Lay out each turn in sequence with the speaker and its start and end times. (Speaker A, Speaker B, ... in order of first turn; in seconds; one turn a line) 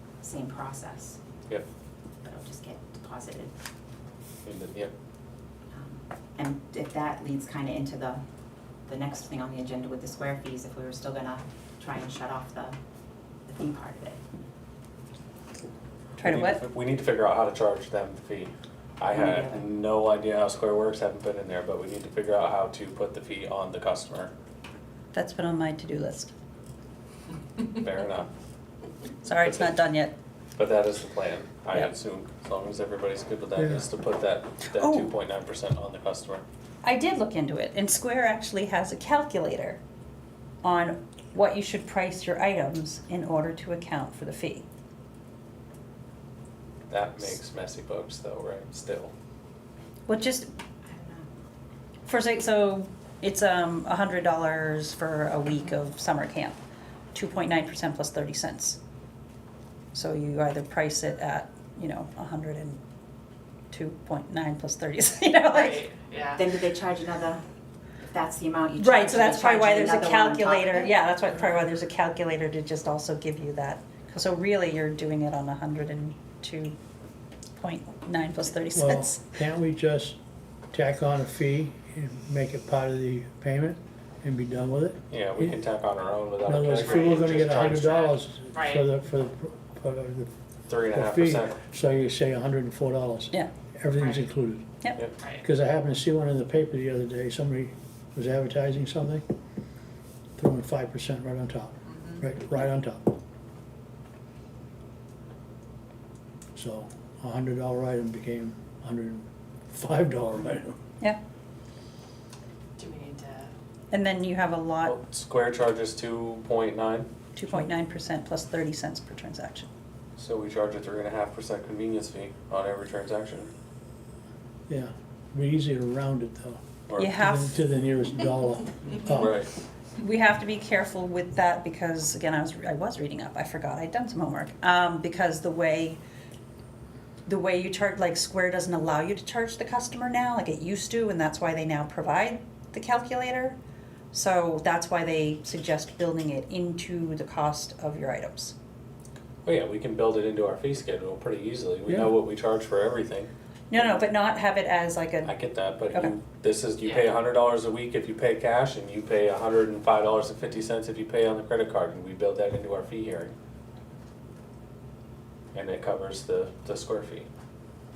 Speaker A: 0.2-1.2
Speaker A: 2.2-3.5
Speaker B: 4.4-4.9
Speaker A: 5.7-8.2
Speaker A: 8.9-12.8
Speaker A: 13.5-14.2
Speaker C: 16.2-16.6
Speaker B: 16.2-24.3
Speaker A: 19.1-19.6
Speaker C: 25.1-26.3
Speaker B: 27.6-28.3
Speaker C: 29.2-30.1
Speaker B: 29.3-29.8
Speaker B: 30.6-36.4
Speaker C: 34.7-35.1
Speaker C: 36.8-39.8
Speaker C: 40.6-44.6
Speaker B: 46.9-49.1
Speaker C: 50.1-50.5
Speaker A: 50.9-51.3
Speaker C: 52.1-56.6
Speaker C: 57.1-58.8
Speaker C: 59.9-62.8
Speaker C: 63.7-65.8
Speaker D: 65.5-66.5
Speaker A: 66.3-67.4
Speaker A: 68.1-70.9
Speaker C: 68.8-76.8
Speaker C: 77.6-79.3
Speaker E: 78.7-80.2
Speaker E: 80.7-85.5
Speaker B: 85.1-88.1
Speaker E: 86.5-90.3
Speaker D: 88.0-88.9
Speaker B: 90.7-91.6
Speaker E: 90.9-94.7
Speaker D: 93.9-94.3
Speaker D: 95.2-95.4
Speaker E: 95.4-99.2
Speaker E: 100.4-103.2
Speaker D: 101.9-102.2
Speaker E: 106.5-110.8
Speaker D: 112.8-113.5
Speaker C: 113.9-115.0
Speaker B: 114.8-117.1
Speaker C: 117.3-119.7
Speaker B: 120.2-123.5
Speaker E: 124.7-129.3
Speaker B: 126.9-127.2
Speaker C: 127.0-127.6
Speaker B: 129.1-129.5
Speaker C: 130.0-136.0
Speaker C: 137.3-143.6
Speaker C: 144.1-148.5
Speaker B: 149.4-154.0
Speaker C: 153.7-155.3
Speaker B: 155.2-163.3
Speaker B: 165.5-167.3